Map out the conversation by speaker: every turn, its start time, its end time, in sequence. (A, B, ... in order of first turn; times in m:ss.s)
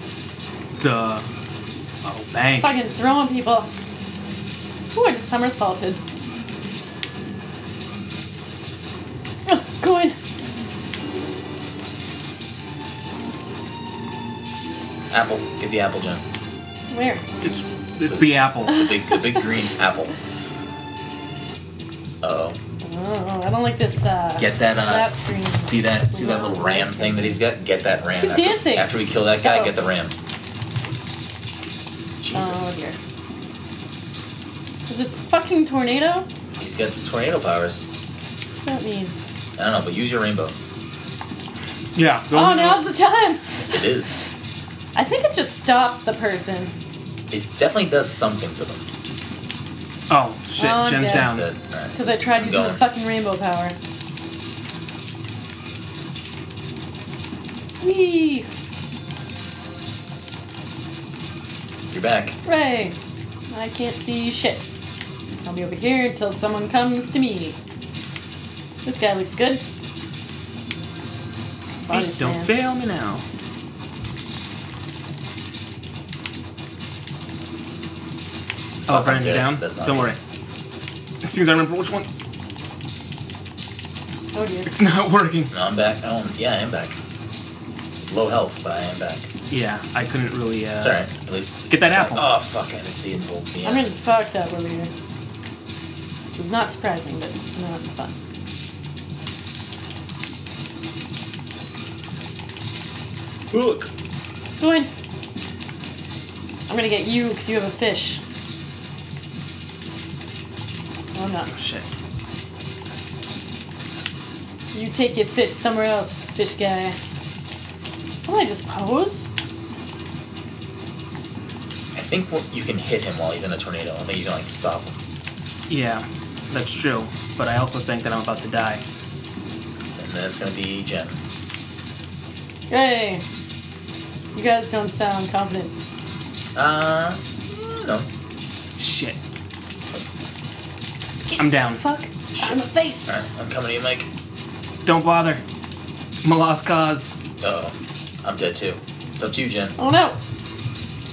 0:00.8-0:01.2 A
0:02.0-0:02.7 A
0:02.6-0:03.7 B
0:04.9-0:06.0 B
0:09.5-0:10.2 B
0:15.1-0:16.2 C
0:16.9-0:17.2 B
0:17.4-0:18.8 A
0:18.1-0:20.1 C
0:18.7-0:19.4 B
0:22.2-0:22.6 C
0:22.8-0:27.4 B
0:24.4-0:30.1 C
0:28.2-0:28.9 B
0:29.4-0:29.7 B
0:32.2-0:32.8 C
0:32.3-0:33.0 B
0:34.9-0:36.3 B
0:36.6-0:37.9 C
0:38.5-0:39.1 B
0:39.6-0:40.5 C
0:41.9-0:42.8 A
0:42.3-0:44.0 B
0:43.7-0:44.2 C
0:44.9-0:46.7 B
0:47.3-0:48.8 C
0:50.1-0:51.5 A
0:50.6-0:51.3 B
0:51.1-0:52.8 C
0:51.9-0:53.8 B
0:57.8-0:58.5 B
1:01.9-1:02.4 C
1:02.4-1:03.0 B
1:03.5-1:04.6 B
1:05.4-1:07.6 B
1:08.8-1:09.6 B
1:11.9-1:12.5 B
1:11.9-1:13.2 A
1:18.9-1:20.2 C
1:18.9-1:20.2 A
1:21.2-1:22.1 A
1:24.3-1:24.7 B
1:24.7-1:25.5 A
1:25.5-1:27.0 C
1:28.0-1:29.3 C
1:29.5-1:31.0 A
1:30.8-1:33.9 C
1:31.7-1:32.3 A
1:33.6-1:34.9 B
1:36.3-1:38.1 B
1:43.5-1:43.9 C
1:44.6-1:44.9 B
1:46.7-1:48.2 B
1:51.1-1:51.5 B
1:51.5-1:51.9 A
1:54.7-1:57.0 B
1:58.2-1:59.3 B
2:01.9-2:05.0 C
2:05.7-2:08.8 A
2:10.0-2:11.2 C
2:12.7-2:13.2 B
2:14.3-2:15.7 B
2:16.5-2:18.1 C
2:18.8-2:19.2 A
2:21.3-2:23.2 B
2:21.4-2:21.8 A
2:22.4-2:24.1 C
2:24.8-2:25.4 A
2:26.2-2:27.2 A
2:27.4-2:29.7 C
2:29.8-2:30.2 B